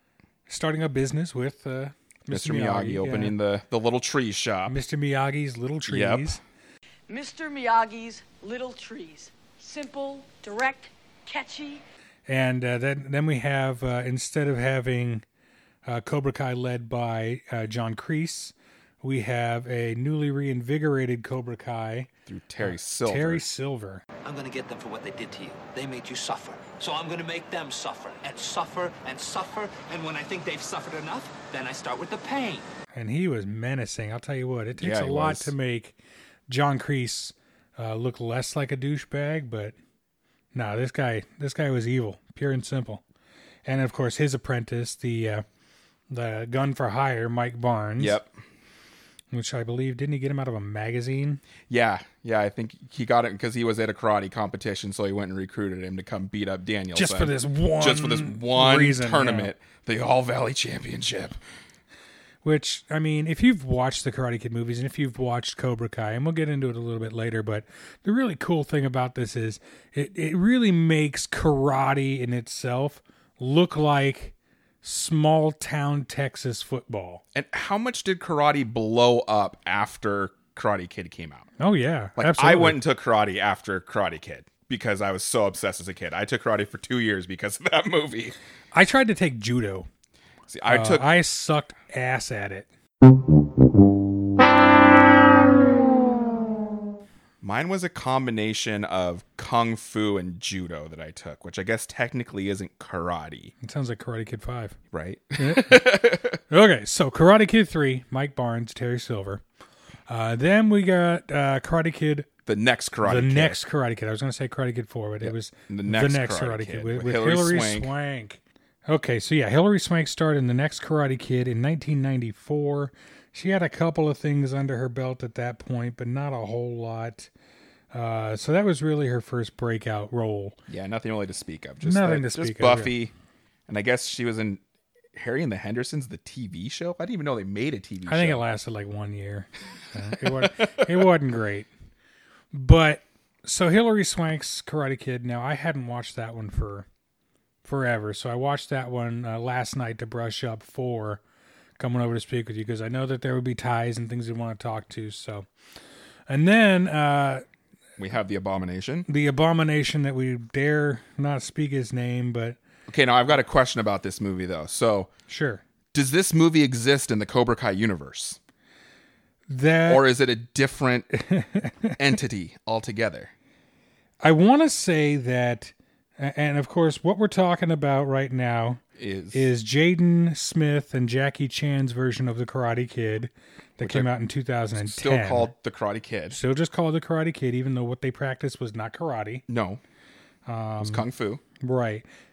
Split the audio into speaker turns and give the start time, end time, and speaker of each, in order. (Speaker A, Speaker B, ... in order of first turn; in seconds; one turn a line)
Speaker A: 0.5-3.4
Speaker B: 2.3-4.8
Speaker A: 4.7-6.4
Speaker B: 5.9-6.4
Speaker C: 7.1-11.8
Speaker A: 12.3-15.2
Speaker A: 15.9-22.1
Speaker B: 22.3-23.4
Speaker A: 22.6-24.0
Speaker D: 24.2-32.7
Speaker A: 33.0-36.0
Speaker B: 34.8-35.5
Speaker A: 36.5-39.8
Speaker A: 40.5-43.0
Speaker A: 43.7-45.4
Speaker A: 46.1-48.2
Speaker B: 48.0-48.3
Speaker A: 49.3-51.4
Speaker B: 51.7-61.4
Speaker A: 56.9-59.5
Speaker A: 62.4-77.2
Speaker B: 77.3-81.5
Speaker A: 81.6-82.8
Speaker B: 82.2-88.3
Speaker A: 88.7-89.9
Speaker B: 90.5-91.1
Speaker A: 90.7-92.7
Speaker B: 97.4-103.5
Speaker A: 103.6-104.8
Speaker B: 104.9-106.4
Speaker A: 105.4-109.4
Speaker A: 110.1-112.3
Speaker B: 112.5-113.6
Speaker A: 113.0-127.3
Speaker B: 115.2-117.9
Speaker A: 127.9-130.6
Speaker B: 130.7-133.1
Speaker A: 131.8-132.9
Speaker B: 133.7-134.6
Speaker B: 135.2-138.5
Speaker A: 138.1-141.7
Speaker B: 140.2-141.1
Speaker A: 142.5-146.9
Speaker A: 147.7-151.2
Speaker A: 151.8-155.5
Speaker A: 156.3-157.4
Speaker B: 158.0-159.1
Speaker A: 159.1-162.6
Speaker B: 162.9-165.1
Speaker A: 165.3-165.6
Speaker B: 165.9-168.4
Speaker A: 169.5-170.1
Speaker B: 169.9-171.1
Speaker A: 171.2-172.0
Speaker B: 172.0-173.3
Speaker A: 174.2-178.8
Speaker B: 179.0-179.5
Speaker A: 179.3-185.5
Speaker B: 183.8-184.1
Speaker B: 184.8-186.4
Speaker A: 186.3-189.4
Speaker B: 189.5-189.8
Speaker A: 190.5-191.1
Speaker B: 190.8-191.4
Speaker A: 191.6-192.1